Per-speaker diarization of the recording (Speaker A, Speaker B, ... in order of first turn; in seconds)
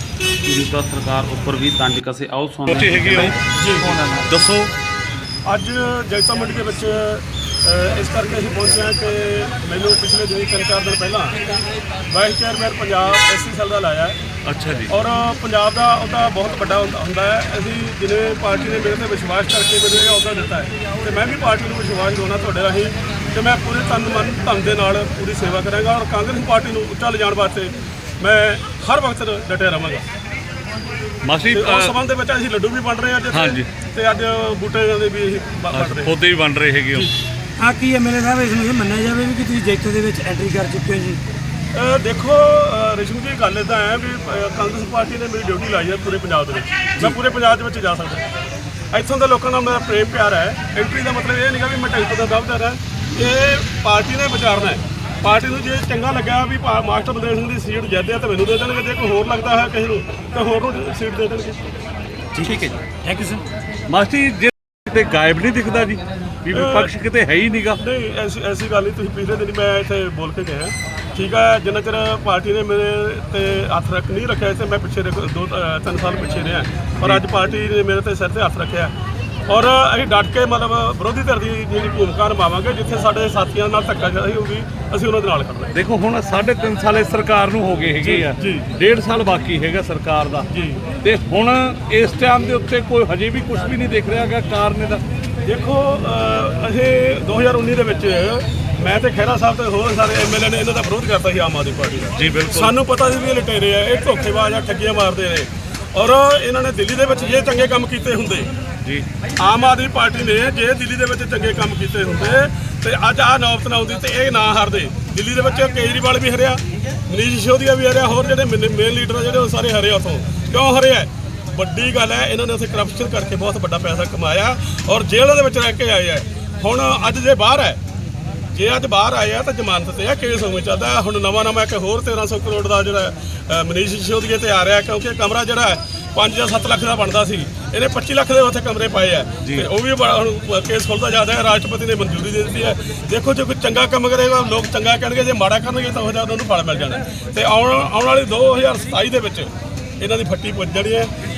Speaker A: 0.4-3.4
Speaker B: 2.7-4.7, 14.4-14.9, 31.2-31.9, 33.3-33.7, 35.7-37.1, 62.4-62.7, 63.9-67.8, 85.7-90.5, 91.0-95.0, 102.2-102.8, 139.4-139.7
Speaker C: 3.5-4.0, 5.5-11.4, 12.1-14.2, 14.9-30.0, 31.5-36.1, 41.7-48.2, 48.9-61.6, 66.5-66.9, 67.8-78.9, 79.5-85.7, 88.0-88.7, 90.5-90.9, 95.5-108.5, 109.4-127.8, 128.5-151.1
Speaker D: 37.6-41.2, 62.4-63.4